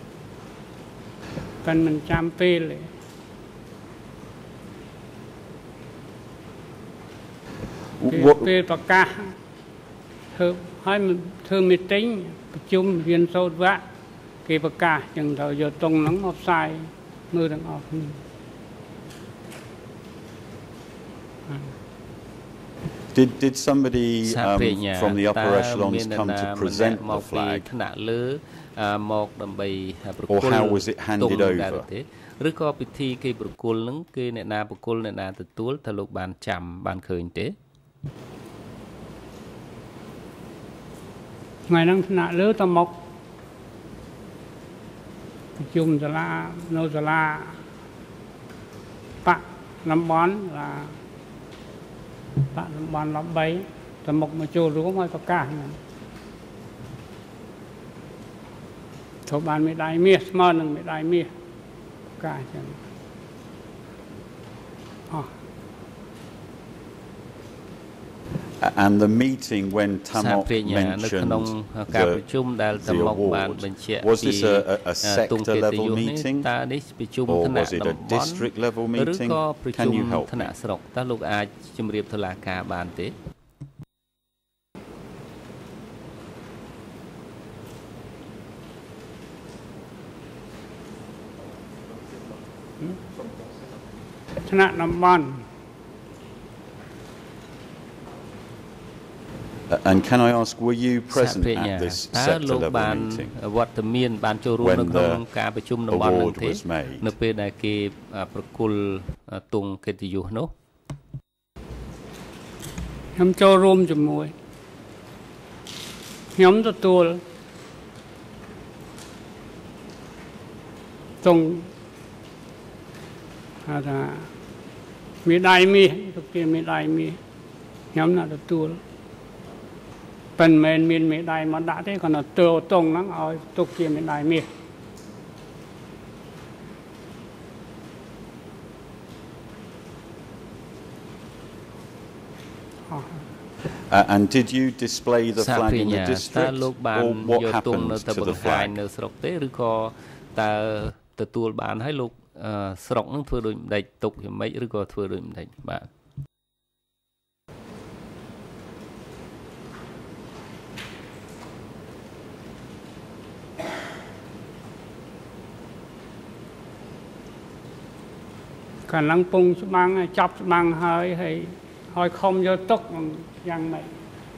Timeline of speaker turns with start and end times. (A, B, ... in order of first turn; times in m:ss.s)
0:01.6-0:02.9 A
0:08.0-0:08.5 B
0:08.1-0:09.3 A
0:10.3-0:13.8 A
0:14.4-0:18.2 A
0:23.1-0:27.7 B
0:24.2-0:37.6 C
0:30.3-0:31.9 B
0:41.7-0:43.0 A
0:45.6-0:47.6 A
0:49.2-0:51.0 A
0:52.5-0:55.8 A
0:59.3-1:01.3 A
1:02.2-1:02.8 A
1:08.6-1:12.2 B
1:10.2-1:23.1 C
1:12.8-1:16.5 B
1:17.3-1:20.5 B
1:34.4-1:35.5 A
1:39.7-1:43.4 B
1:41.1-1:50.5 C
1:44.6-1:45.2 B
1:45.9-1:47.1 B
1:53.2-1:54.3 A
1:56.4-1:57.2 A
2:01.2-2:01.7 A
2:03.7-2:04.3 A
2:05.2-2:07.2 A
2:07.9-2:08.8 A
2:10.4-2:14.5 A
2:22.9-2:23.2 A
2:23.9-2:28.8 B
2:25.4-2:35.9 C
2:48.9-2:53.9 A